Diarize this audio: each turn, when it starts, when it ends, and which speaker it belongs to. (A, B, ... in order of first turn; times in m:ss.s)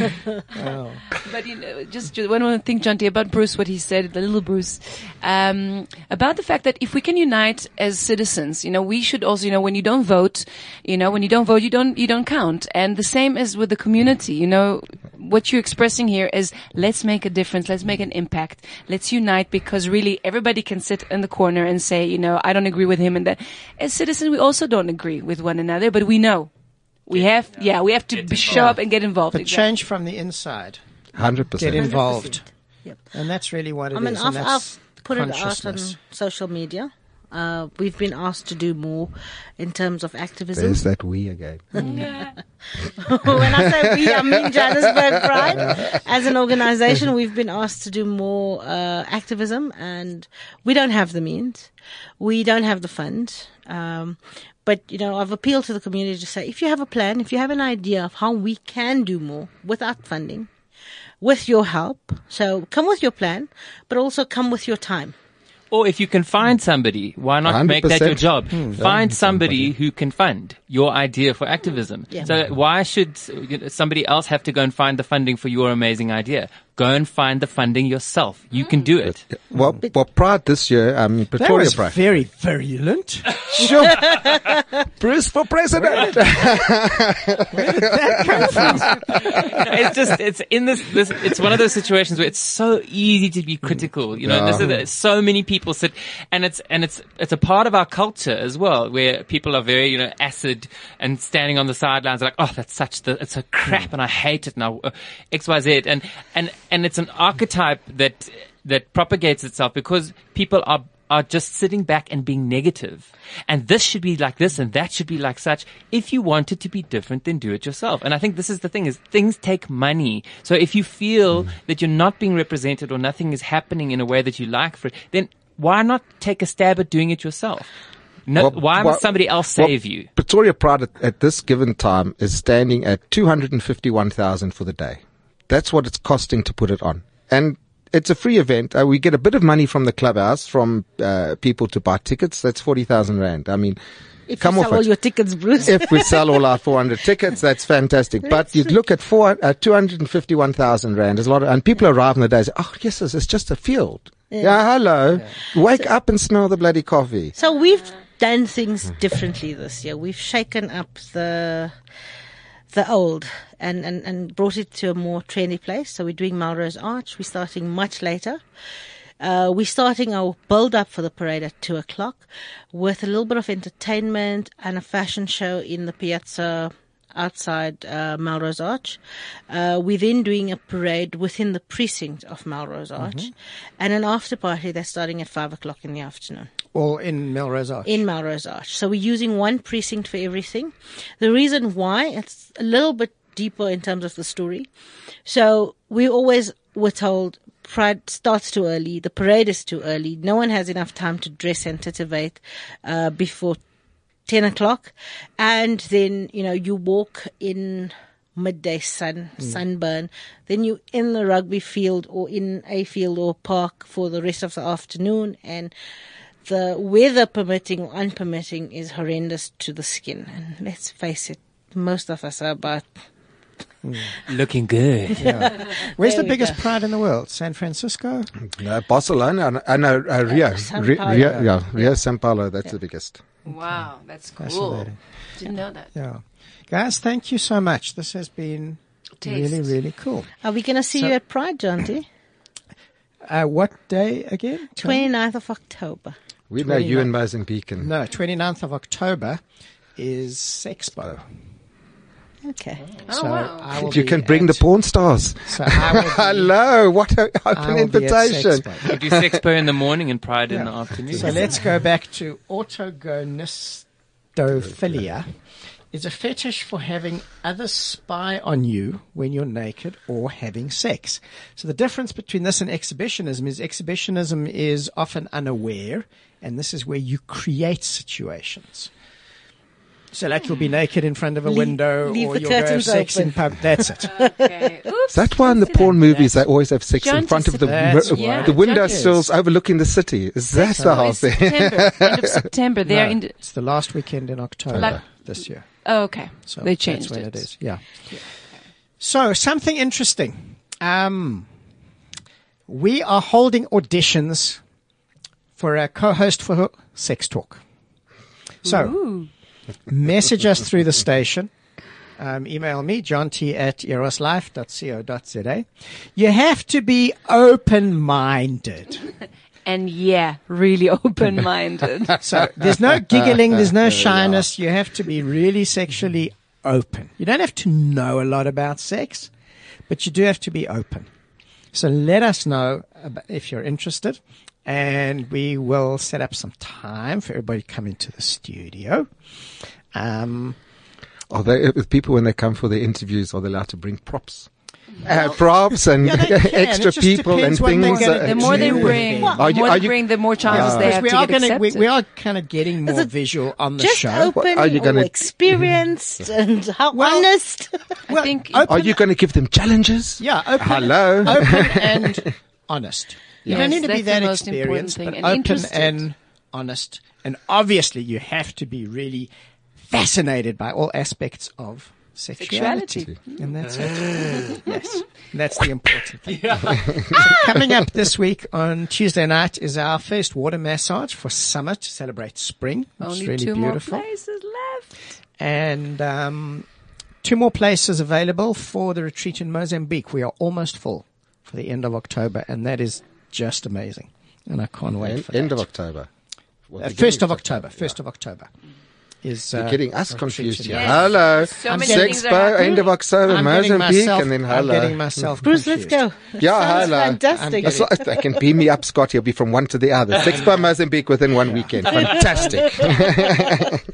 0:00.6-0:01.1 A
0:00.6-0:26.5 B
0:27.0-0:29.7 B
0:27.1-0:28.8 C
0:28.4-0:30.8 A
0:31.1-0:31.9 D
0:31.4-0:32.5 A
0:33.1-0:36.0 A
0:33.9-0:40.8 E
0:40.5-0:41.7 D
0:41.7-0:42.2 E
0:41.8-0:42.3 B
0:42.8-1:00.5 E
0:43.4-0:45.7 D
1:01.2-1:05.2 E
1:05.7-1:19.2 C
1:07.4-1:09.7 D
1:08.5-1:08.8 A
1:19.3-1:22.0 D
1:21.4-1:24.0 A
1:23.5-1:24.3 D
1:25.0-1:29.4 D
1:25.8-1:26.2 A
1:27.5-1:29.4 A
1:29.2-2:07.7 C
1:34.2-1:34.6 D
2:08.3-2:10.1 C
2:08.4-2:23.8 D
2:24.3-2:26.3 E
2:24.4-2:24.9 D
2:25.6-2:37.3 D
2:34.3-2:34.6 E
2:37.4-2:41.8 E
2:42.7-2:48.4 E
2:49.2-3:06.5 E
3:03.0-3:03.3 A
3:06.7-3:08.0 A
3:07.8-3:14.7 E
3:15.2-3:23.6 E
3:24.2-3:35.7 E
3:36.4-3:42.9 E
3:43.8-3:44.1 A
3:44.3-3:45.2 C
3:45.2-3:46.6 E
3:45.2-3:48.3 A
3:48.4-3:53.2 D
3:50.3-3:51.8 E
3:51.1-3:51.5 A
3:53.4-3:55.9 B
3:54.4-4:00.3 A
3:59.2-3:59.7 B
4:00.4-4:02.0 E
4:03.2-4:05.1 A
4:04.8-4:06.1 E
4:06.5-4:07.9 D
4:06.6-4:07.1 A
4:07.8-4:09.4 A
4:09.9-4:11.3 A
4:12.4-4:12.8 E
4:13.1-4:14.6 A
4:13.1-4:14.0 B
4:13.8-4:19.4 D
4:15.4-4:16.5 A
4:17.5-4:18.9 A
4:18.8-4:21.6 C
4:20.5-4:38.9 A
4:21.1-4:21.4 D
4:40.1-4:44.1 A
4:41.4-4:44.7 E
4:44.1-4:46.4 B
4:45.1-4:52.4 D
4:47.0-4:49.1 B
4:47.6-4:49.3 A
4:50.5-4:53.4 B
4:50.8-4:51.1 A
4:52.8-5:01.5 A
4:54.7-4:55.0 D
4:54.7-4:58.7 B
5:02.7-5:04.6 A
5:05.6-5:07.6 A
5:08.6-5:09.2 A
5:08.6-5:09.3 B
5:09.9-5:11.5 A
5:12.2-5:19.1 A
5:19.6-5:22.2 B
5:22.2-5:29.3 A
5:23.5-5:24.4 D
5:29.9-5:31.1 A
5:31.7-5:40.6 A
5:41.3-5:44.5 D
5:45.0-5:51.0 D
5:46.0-5:49.6 A
5:47.8-5:51.9 B
5:50.4-5:54.3 A
5:52.8-5:53.1 E
5:53.8-5:57.9 E
5:54.3-5:55.1 D
5:56.9-5:57.3 A
5:58.1-5:58.9 A
5:58.1-5:58.9 B
5:58.6-6:02.2 D
6:00.2-6:24.0 A
6:03.4-6:03.7 D
6:03.5-6:06.0 B
6:12.4-6:13.5 B
6:16.3-6:16.9 C
6:23.0-6:24.9 B
6:25.4-6:26.7 A
6:27.2-6:35.6 A
6:35.0-6:36.1 D
6:36.7-6:38.0 D
6:36.8-6:38.5 A
6:39.2-6:42.4 A
6:39.5-6:45.4 D
6:40.7-6:42.9 B
6:43.2-6:46.0 A
6:45.4-6:48.2 E
6:46.4-6:53.8 D
6:47.3-6:47.9 A
6:51.4-6:52.1 A